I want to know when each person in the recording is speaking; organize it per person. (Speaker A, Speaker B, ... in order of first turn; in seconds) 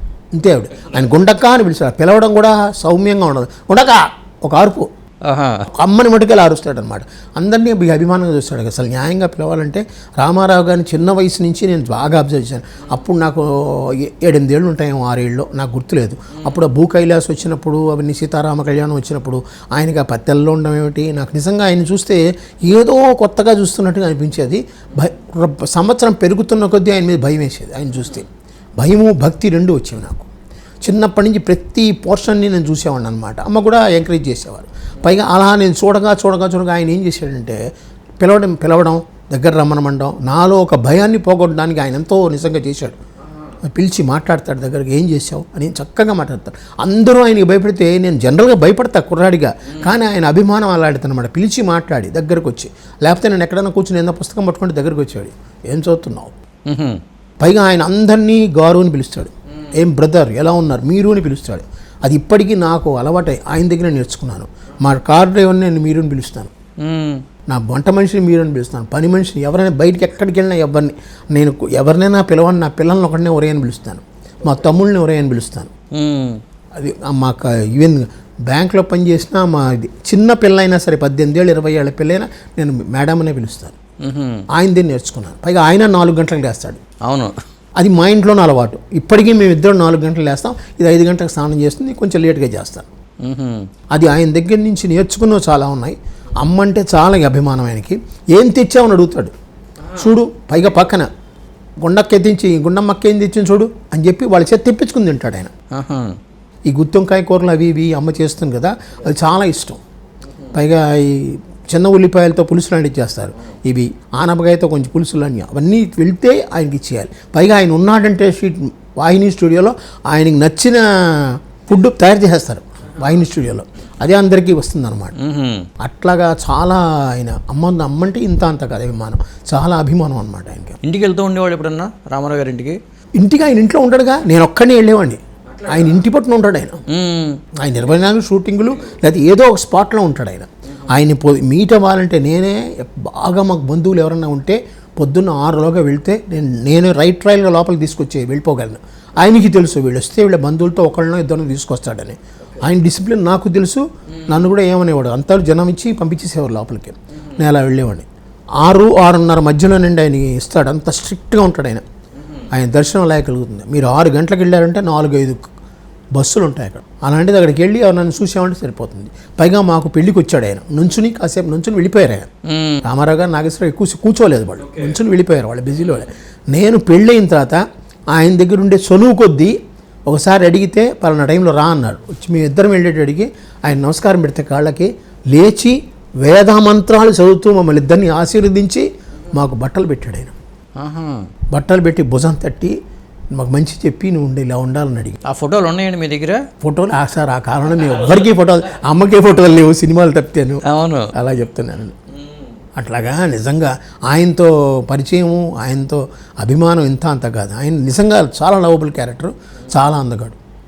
Speaker A: 0.3-4.9, 5.8-30.3, 30.8-37.6, 38.2-43.0, 43.6-56.3, 57.4-66.5, 67.5-75.7, 76.8-83.8, 84.5-86.8, 87.8-92.9, 93.9-99.3, 99.9-101.1, 101.8-105.5, 106.7-109.8, 110.5-125.1, 125.8-130.8, 133.2-136.8, 137.6-158.1, 158.6-161.8, 162.5-165.4, 166.1-172.3, 172.8-179.6, 180.1-190.3, 191.5-192.8, 193.3-195.2, 196.6-201.9, 202.8-210.4
Speaker B: 5.2-5.7, 56.7-57.0, 66.8-67.2, 75.9-76.4, 84.0-84.4, 87.0-87.3, 93.2-93.7, 105.7-106.2, 125.2-125.7, 130.8-132.8, 135.5-136.0, 136.9-137.4, 172.4-172.8, 190.8-191.2, 195.3-196.4, 200.6-201.1